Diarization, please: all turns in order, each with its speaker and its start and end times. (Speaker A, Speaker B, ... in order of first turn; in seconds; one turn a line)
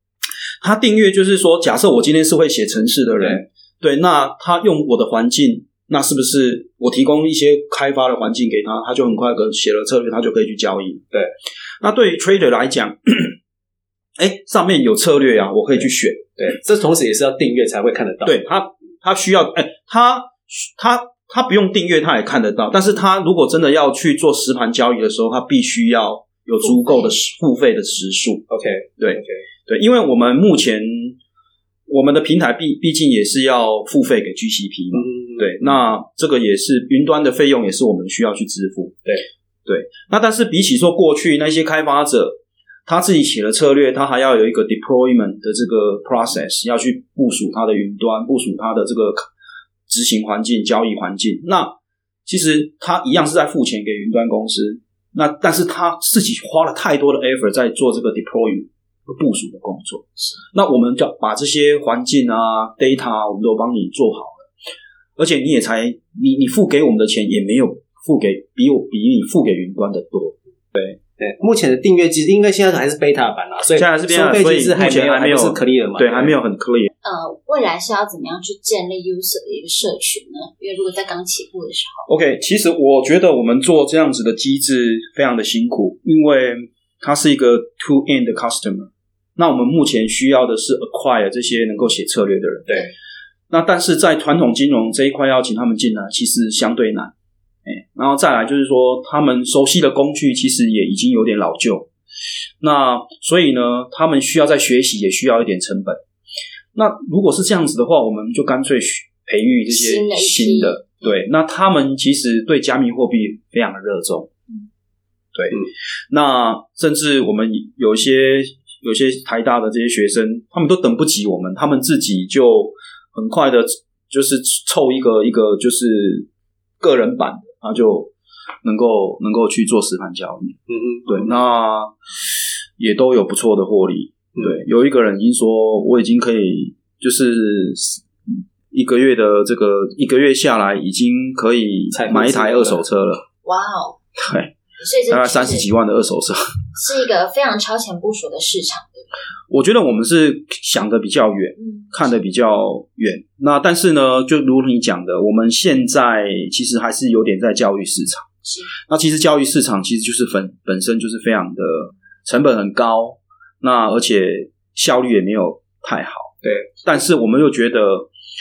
Speaker A: 0.6-11.1
Speaker A: 11.8-13.4
Speaker A: 14.2-16.3
Speaker B: 16.4-18.4
Speaker A: 18.2-28.4
Speaker C: 26.6-27.1
Speaker B: 28.5-29.4
Speaker A: 29.0-31.2
Speaker A: 31.9-39.0
Speaker B: 34.9-35.7
Speaker A: 39.7-49.3
Speaker A: 49.9-64.5
Speaker A: 65.2-71.0
Speaker B: 71.2-76.3
Speaker A: 73.8-76.9
Speaker C: 77.0-82.1
Speaker A: 82.1-92.7
Speaker A: 93.5-97.1
Speaker A: 97.7-101.9
Speaker A: 102.6-106.0
Speaker A: 106.7-114.3
Speaker C: 109.7-111.1
Speaker A: 115.3-126.3
Speaker A: 126.8-128.1
Speaker A: 128.6-131.9
Speaker B: 130.7-131.1
Speaker A: 132.8-143.2
Speaker B: 141.9-142.8
Speaker C: 143.4-144.0
Speaker A: 144.2-144.5
Speaker C: 144.8-145.7
Speaker A: 145.1-146.4
Speaker C: 146.8-149.1
Speaker A: 149.5-158.3
Speaker C: 151.6-152.1
Speaker C: 158.4-158.7
Speaker A: 158.8-168.1
Speaker B: 166.4-166.7